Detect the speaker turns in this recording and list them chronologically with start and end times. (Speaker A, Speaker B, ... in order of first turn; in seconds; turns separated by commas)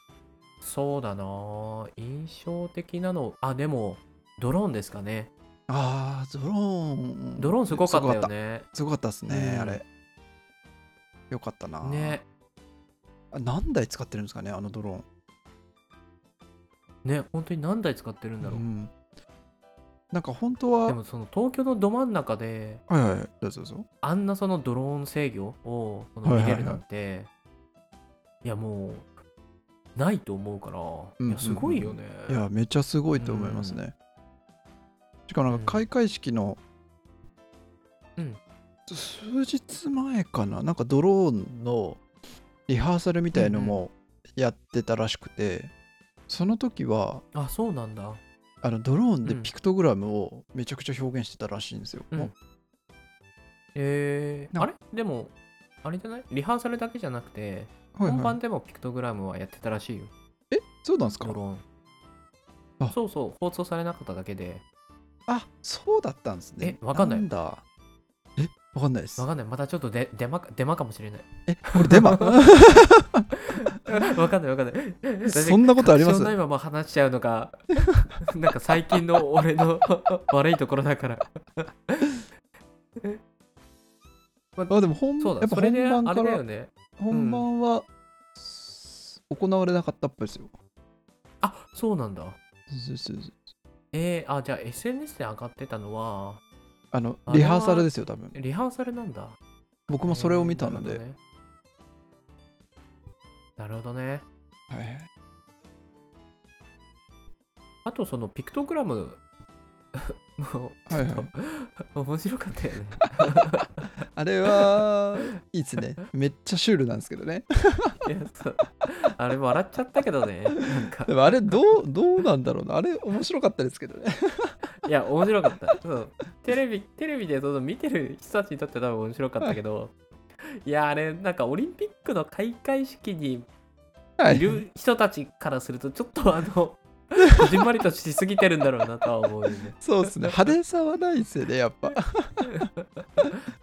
Speaker A: 0.6-5.3, Speaker B: 5.7-9.8, Speaker A: 7.4-8.7, Speaker A: 9.3-9.8, Speaker B: 11.3-12.2, Speaker A: 11.8-12.2, Speaker B: 13.3-15.1, Speaker A: 17.0-18.6, Speaker B: 18.4-19.0, Speaker B: 20.1-21.0, Speaker A: 20.9-22.8, Speaker B: 22.9-23.9, Speaker A: 24.0-27.3, Speaker B: 26.2-26.8, Speaker A: 28.4-29.1, Speaker A: 29.9-32.4, Speaker B: 31.2-33.9, Speaker A: 33.1-33.8, Speaker B: 35.3-36.6, Speaker A: 35.5-35.9, Speaker B: 38.9-42.0, Speaker B: 42.7-45.7, Speaker A: 43.3-43.8, Speaker B: 46.3-47.2, Speaker A: 47.3-48.2, Speaker B: 48.6-52.3, Speaker A: 49.2-49.5, Speaker A: 53.7-60.1, Speaker B: 57.9-58.4, Speaker B: 60.5-61.4, Speaker A: 61.2-61.6, Speaker A: 62.9-64.6, Speaker B: 65.3-67.6, Speaker A: 66.6-67.3, Speaker B: 68.4-69.2, Speaker A: 69.2-72.4, Speaker B: 71.5-73.3, Speaker A: 73.5-77.7, Speaker B: 75.3-76.3, Speaker B: 77.9-78.2, Speaker A: 78.2-82.2, Speaker A: 84.5-87.5, Speaker B: 84.7-86.4, Speaker B: 87.0-90.5, Speaker A: 91.4-92.4, Speaker B: 92.7-93.5, Speaker A: 93.9-96.4, Speaker B: 96.9-98.3, Speaker A: 97.2-99.4, Speaker B: 99.9-101.0, Speaker A: 100.0-101.2, Speaker A: 103.6-104.2, Speaker B: 104.7-105.1, Speaker A: 107.8-109.2, Speaker A: 109.9-113.9, Speaker B: 110.9-111.3, Speaker B: 114.1-118.0, Speaker A: 114.6-114.8, Speaker A: 118.0-121.6, Speaker B: 121.0-124.6, Speaker A: 124.8-129.9, Speaker A: 130.6-133.5, Speaker B: 134.2-134.6, Speaker A: 134.3-140.3, Speaker B: 139.8-142.7, Speaker A: 142.5-143.2